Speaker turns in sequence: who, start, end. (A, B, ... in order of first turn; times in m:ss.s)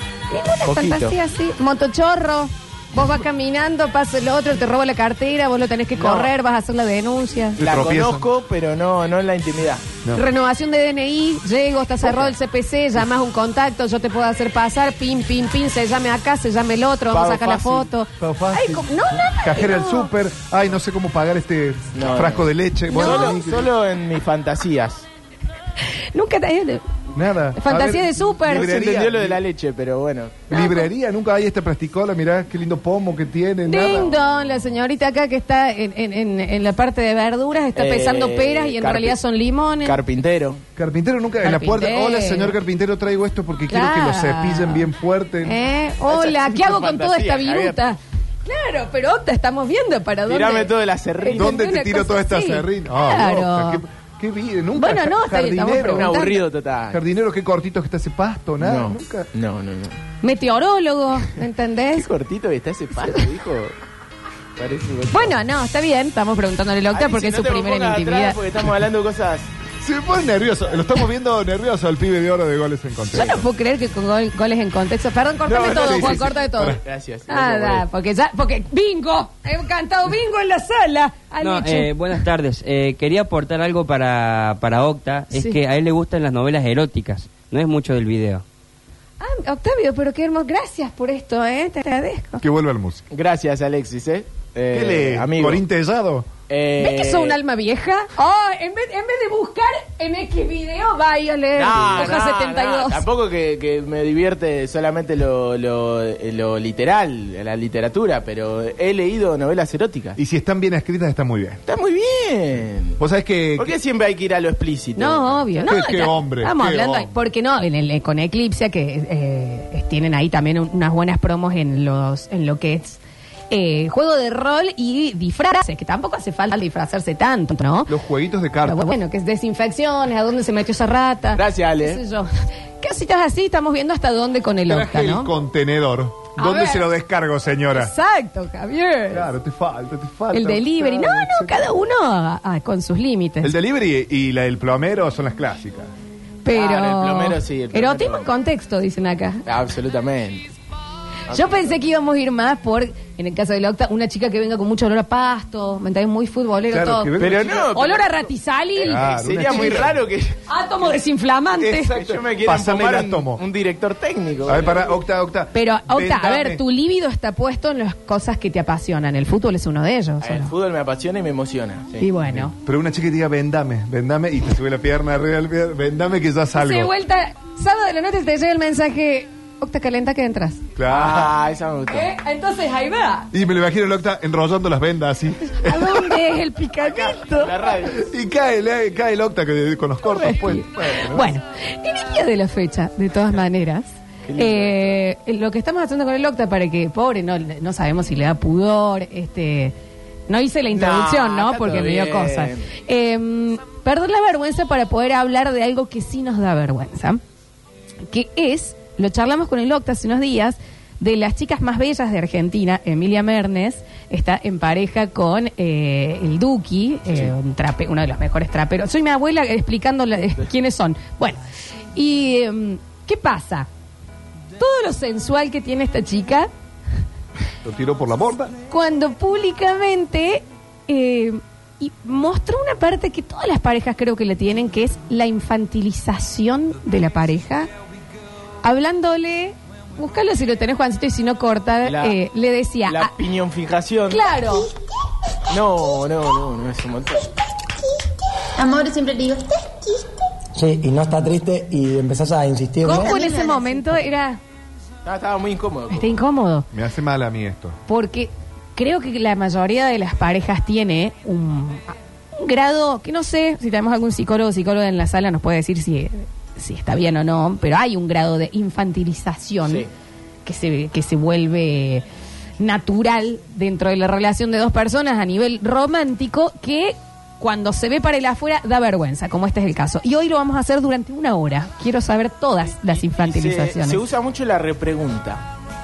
0:00.3-0:07.6 A
0:00.6-0:01.2 B
0:06.0-0:06.3 B
0:07.6-0:08.3 C
0:07.6-0:09.8 B
0:10.1-0:20.1 A
0:12.0-0:12.3 B
0:17.1-0:17.9 B
0:18.2-0:23.7 C
0:22.0-0:25.1 B
0:22.9-0:23.4 A
0:26.1-0:28.8 A
0:27.1-0:29.4 C
0:28.5-0:30.6 B
0:30.5-0:34.1 C
0:30.6-0:30.8 A
0:33.7-0:40.0 A
0:37.8-0:39.2 B
0:39.8-0:40.6 B
0:40.8-0:45.6 C
0:41.4-0:42.6 A
0:43.7-0:44.9 A
0:45.4-0:53.8 A
0:46.1-0:47.8 B
0:50.3-0:51.6 B
0:51.4-0:56.2 C
0:54.8-0:56.4 A
0:55.8-0:57.0 B
0:56.9-0:59.3 C
0:58.6-1:00.0 B
1:00.2-1:02.1 A
1:02.0-1:03.7 B
1:04.6-1:05.4 B
1:05.1-1:08.4 A
1:06.9-1:09.5 B
1:09.8-1:13.4 C
1:13.1-1:22.2 A
1:15.5-1:17.9 B
1:15.7-1:16.8 C
1:21.4-1:28.4 D
1:25.3-1:25.6 A
1:29.2-1:32.4 A
1:32.4-1:33.0 C
1:33.1-1:35.6 B
1:34.7-1:36.3 C
1:36.5-1:37.4 B
1:36.8-1:43.0 A
1:41.6-1:50.2 B
1:41.8-1:42.1 C
1:50.2-1:51.6 C
1:51.7-1:53.0 B
1:53.0-1:53.8 C
1:53.6-1:55.6 B
1:55.0-2:03.0 A
1:55.6-1:57.1 C
2:03.5-2:08.0 A
2:07.9-2:08.9 C
2:08.6-2:12.3 A
2:11.4-2:12.0 B
2:12.8-2:15.3 A
2:14.7-2:17.9 C
2:16.4-2:16.9 A
2:17.7-2:19.3 A
2:19.1-2:21.7 C
2:20.3-2:23.5 A
2:23.4-2:25.9 C
2:26.4-2:29.4 A
2:26.5-2:28.3 B
2:29.5-2:30.5 B
2:31.3-2:31.7 B
2:31.3-2:37.1 A
2:36.7-2:37.7 C
2:37.2-2:38.3 B
2:37.7-2:39.9 A
2:38.8-2:40.4 B
2:38.8-2:40.0 C
2:40.5-2:41.9 A
2:41.6-2:43.4 C
2:41.9-2:44.9 B
2:44.5-2:46.6 C
2:45.5-2:50.5 A
2:50.2-2:52.1 B
2:52.0-2:52.5 A
2:52.3-2:56.9 C
2:56.6-3:00.6 A
3:00.8-3:01.3 C
3:00.9-3:02.1 B
3:01.9-3:03.3 A
3:03.3-3:06.2 C
3:05.6-3:07.8 A
3:06.8-3:08.0 B
3:07.9-3:11.3 C
3:10.1-3:19.7 A
3:14.3-3:15.0 B
3:20.3-3:27.2 A
3:20.7-3:22.7 B
3:28.1-3:41.4 A
3:41.9-3:43.7 A
3:44.6-3:46.5 A
3:47.6-3:48.6 C
3:48.7-3:57.7 A
3:58.6-4:03.1 A
4:01.8-4:02.2 B
4:02.9-4:04.3 B
4:04.1-4:04.7 A
4:05.5-4:07.3 B
4:08.6-4:10.1 E
4:10.6-4:13.2 F
4:12.8-4:14.4 A
4:12.8-4:13.6 E
4:15.0-4:16.1 B
4:15.9-4:16.7 A
4:16.7-4:17.8 C
4:17.9-4:29.9 A
4:30.4-4:32.0 A
4:32.6-4:44.0 A
4:42.8-4:45.4 B